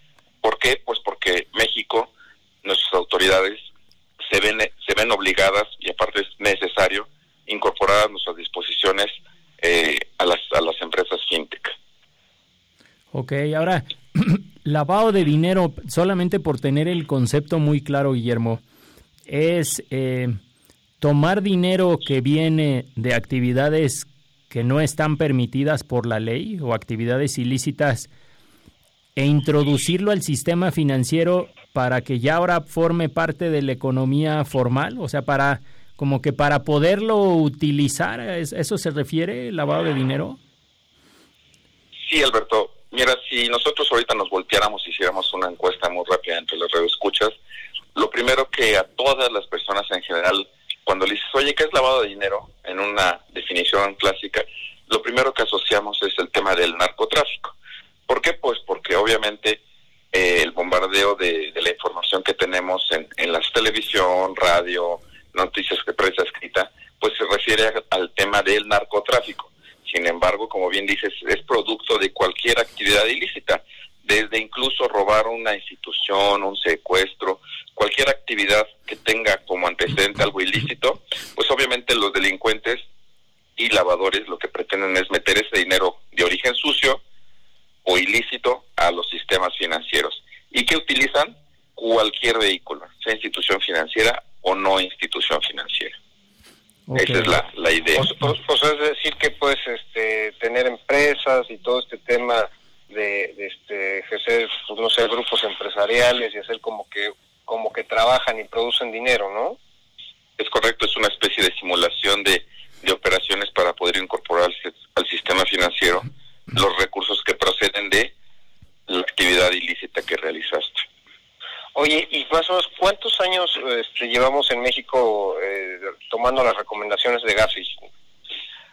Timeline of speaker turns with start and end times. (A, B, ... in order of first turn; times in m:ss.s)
0:00.4-0:02.1 A
0:02.6-0:03.6 A
0:04.2-0:11.7 A
0:13.1-0:18.6 B
0:19.3-0:20.4 B
0:21.0-0:28.1 B
0:29.2-0:40.4 B
0:42.0-0:47.3 A
0:47.9-0:57.5 A
0:58.1-0:59.6 A
1:00.1-1:22.8 A
1:23.6-1:27.0 A
1:27.8-1:36.0 A
1:36.9-1:37.4 B
1:36.9-1:38.1 A
1:38.0-1:49.6 C
1:50.4-1:58.1 A
1:58.9-2:00.8 A
2:01.8-2:07.8 C